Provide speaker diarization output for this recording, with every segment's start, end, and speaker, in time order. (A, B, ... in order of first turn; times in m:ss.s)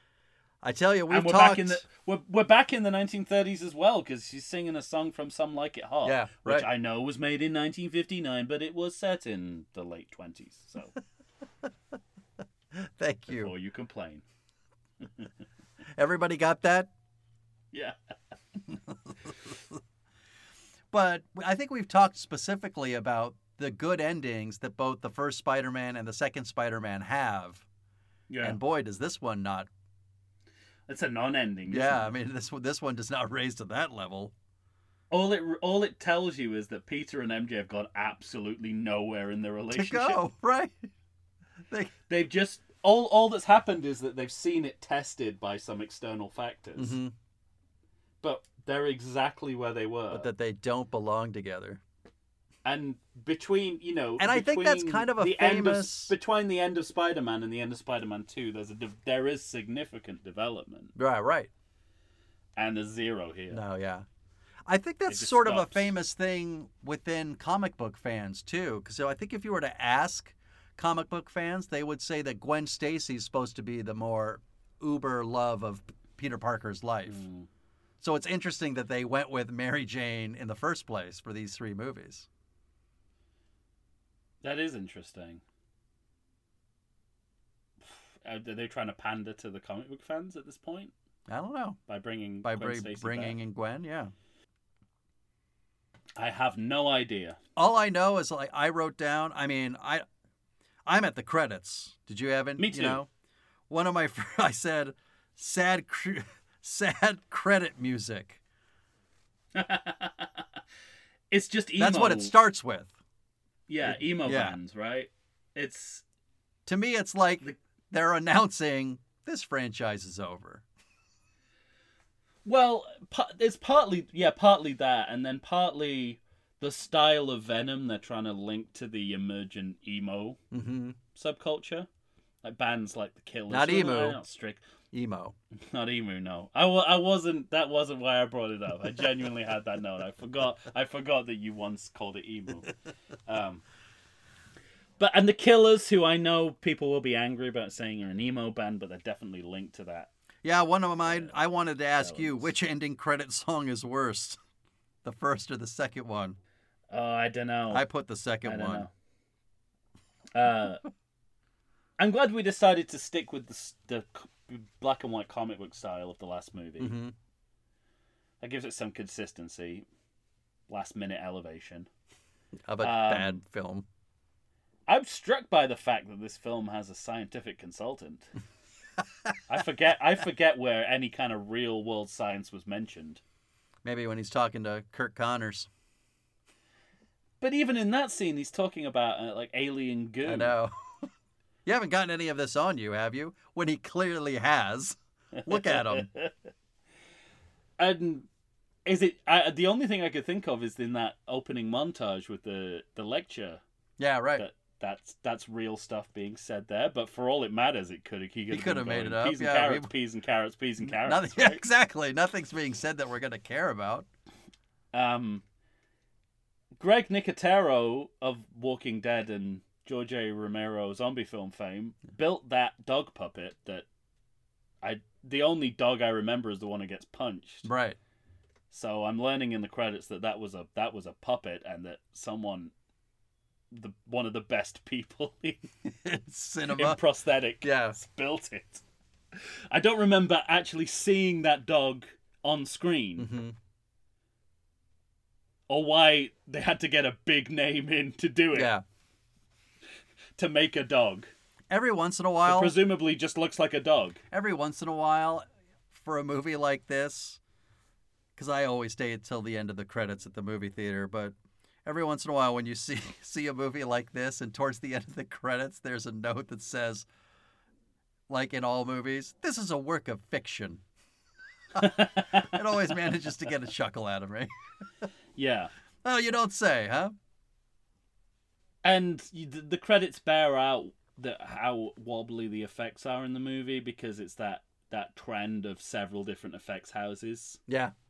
0:00.6-0:01.8 A
0:01.1-0:10.9 B
0:06.0-0:06.7 A
0:12.8-0:13.5 A
0:13.3-0:14.2 B
0:16.0-0:16.9 A
0:20.9-0:27.6 A
0:28.3-0:28.6 B
0:28.4-0:29.7 A
0:30.9-0:32.1 B
0:31.7-0:34.3 A
0:35.1-0:40.2 B
0:39.7-0:40.8 A
0:42.1-0:47.0 B
0:46.8-0:47.1 A
0:48.2-0:50.3 B
0:50.1-0:51.8 A
0:52.6-1:00.9 B
0:54.2-0:56.1 A
1:01.0-1:01.5 A
1:02.6-1:03.6 B
1:03.5-1:04.1 A
1:04.7-1:17.2 A
1:05.1-1:05.9 B
1:17.1-1:17.5 B
1:18.0-1:22.3 A
1:24.4-1:25.4 B
1:28.2-1:30.9 B
1:31.3-1:31.8 A
1:31.9-1:33.4 B
1:32.4-1:34.1 A
1:36.2-1:37.4 B
1:37.6-1:40.0 A
1:40.9-1:43.1 A
1:42.6-1:43.0 B
1:43.7-1:48.4 A
1:49.5-1:50.5 B
1:51.3-1:52.3 B
1:51.8-1:52.9 A
1:53.7-1:56.0 B
1:53.9-1:54.6 A
1:56.7-2:00.6 A
2:02.4-2:10.4 B
2:10.5-2:11.0 A
2:11.2-2:11.9 B
2:12.4-2:14.6 B
2:13.5-2:14.2 A
2:14.9-2:15.4 A
2:15.7-2:22.7 B
2:23.3-2:23.6 B
2:25.0-2:30.1 B
2:30.4-2:34.4 A
2:31.0-2:31.4 B
2:32.0-2:32.5 B
2:35.0-2:36.4 A
2:36.9-2:37.9 B
2:37.7-2:38.9 A
2:38.4-2:38.9 B
2:40.3-2:40.8 B
2:42.0-2:47.0 B
2:46.8-2:47.1 A
2:48.4-2:49.9 B
2:50.7-2:51.9 B
2:52.7-2:53.9 A
2:52.8-2:53.4 B
2:54.9-2:58.3 B
2:59.5-3:03.2 B
3:03.8-3:05.7 A
3:07.4-3:10.6 B
3:10.2-3:11.0 A
3:11.7-3:16.1 A
3:15.4-3:16.3 B
3:17.8-3:18.3 B
3:18.9-3:23.6 B
3:24.0-3:24.4 A
3:24.4-3:31.6 B
3:28.5-3:29.9 A
3:30.8-3:34.1 A
3:34.9-3:35.4 B
3:36.8-3:43.9 B
3:44.8-3:47.7 B
3:47.6-3:48.0 A
3:48.7-3:52.7 B
3:53.7-3:55.7 B
3:55.8-3:57.0 A
3:56.7-3:58.8 B
3:57.6-3:58.0 A
3:59.3-4:03.3 B
4:03.2-4:03.6 A
4:05.7-4:08.7 B
4:08.5-4:08.8 A
4:10.4-4:11.3 B
4:11.7-4:12.8 A
4:12.4-4:14.2 B
4:14.3-4:17.4 A
4:18.4-4:27.1 A
4:28.3-4:30.8 A
4:31.8-4:34.5 A
4:31.8-4:32.6 B
4:35.4-4:35.7 B
4:36.0-4:37.1 A
4:38.8-4:47.6 B
4:47.7-4:47.9 A